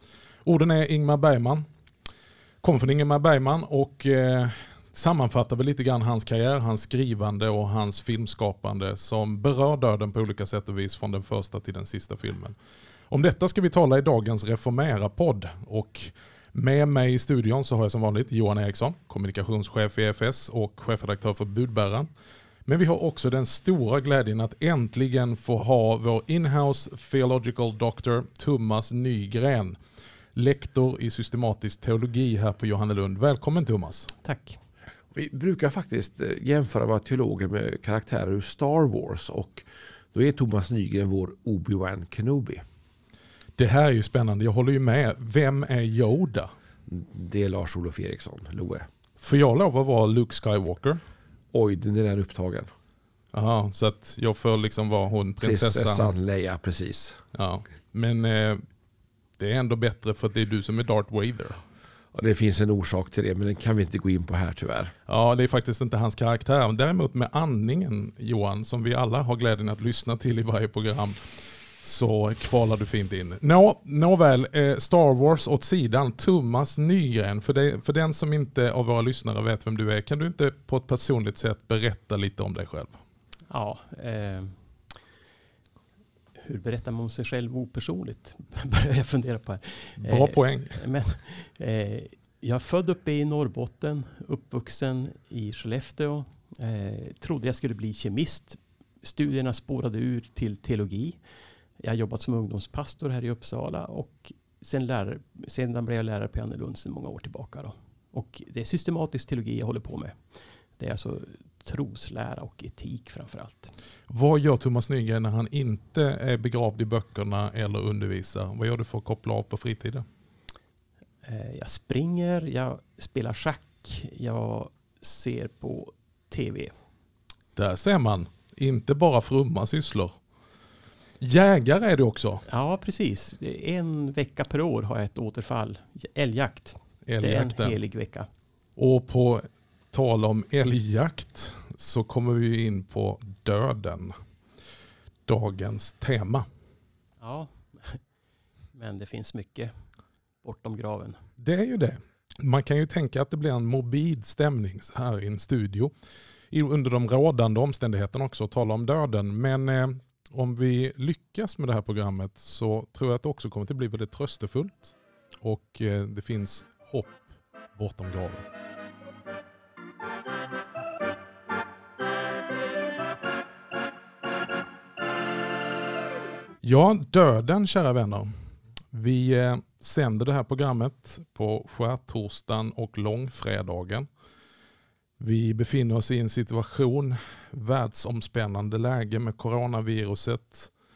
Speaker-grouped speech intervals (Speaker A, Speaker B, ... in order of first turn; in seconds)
Speaker A: 0.4-1.6, 2.6-12.5, 13.1-22.1, 22.6-29.8, 30.3-34.1, 43.6-46.5, 49.2-51.0, 53.3-56.1, 57.3-58.6, 59.4-61.6, 65.0-83.0, 90.0-90.8, 114.1-120.0, 127.5-130.2, 131.2-132.4, 137.1-137.8, 138.8-144.2, 145.3-146.4, 151.4-155.9, 156.5-168.5, 176.6-178.3, 178.9-184.1, 185.2-190.7
Speaker B: 34.2-34.6, 83.5-84.9, 86.4-101.2, 101.8-110.2, 110.8-113.7, 121.2-126.7, 132.5-138.3, 147.2-148.0, 148.7-149.7, 150.4-151.2
Speaker C: 35.1-42.6, 46.9-48.9, 51.5-52.7, 55.4-57.2, 62.1-64.9